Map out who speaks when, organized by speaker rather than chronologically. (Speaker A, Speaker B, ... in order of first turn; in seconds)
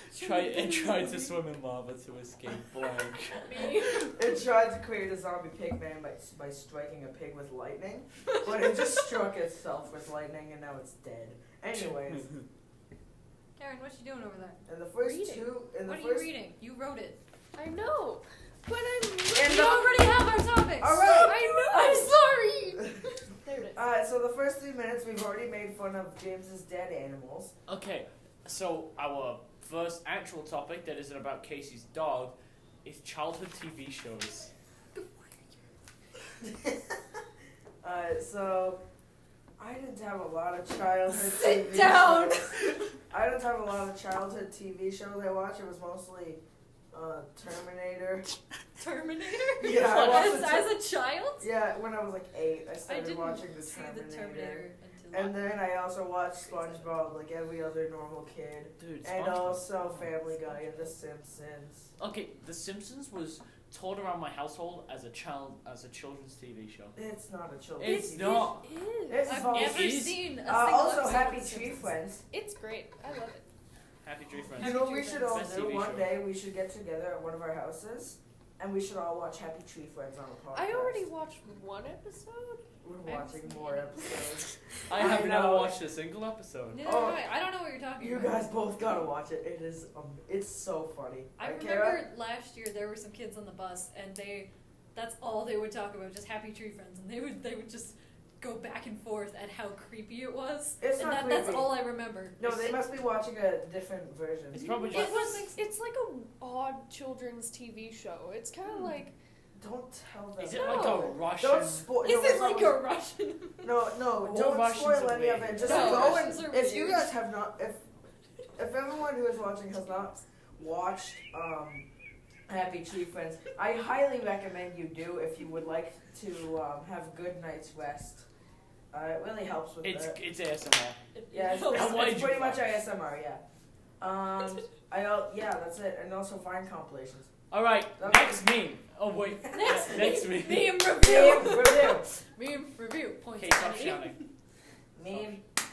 Speaker A: 0.1-4.1, 27.7-34.5, 49.7-50.4, 58.8-60.5, 62.0-67.0, 67.8-68.6, 69.5-70.3, 74.0-76.1, 84.9-86.8, 104.5-105.4, 110.4-111.9, 114.2-116.3, 129.8-131.0, 131.7-132.7, 137.5-141.0, 143.4-144.2, 145.1-145.3
Speaker B: 3.5-4.1, 15.0-15.5, 17.6-20.3, 21.0-22.1, 67.8-69.3, 72.3-73.5, 80.5-82.6, 104.7-109.1, 110.5-111.2, 115.7-116.1
Speaker C: 4.1-12.3, 14.7-16.4, 19.3-19.7, 20.8-22.1, 23.8-27.5, 36.4-37.0, 37.8-38.8, 39.6-48.3, 49.6-50.8, 51.4-61.9, 67.0-68.5, 69.1-72.2, 74.6-81.0, 82.8-85.8, 86.8-87.3, 88.0-92.1, 100.8-104.7, 109.6-112.9, 113.6-117.8, 118.6-121.9, 122.5-128.3, 128.9-130.2, 131.3-133.4, 134.0-137.3, 138.0-138.5, 141.0-142.1, 144.9-145.4
Speaker D: 13.6-14.6, 15.8-17.2, 19.4-23.8, 35.0-35.5, 41.5-42.7, 48.8-51.5, 52.9-55.5, 69.2-71.9, 74.6-75.5, 83.0-83.9, 86.7-88.5, 91.4-102.8, 104.9-105.6, 108.7-108.9, 112.0-113.9, 115.6-117.1, 131.2-132.1, 139.5-144.3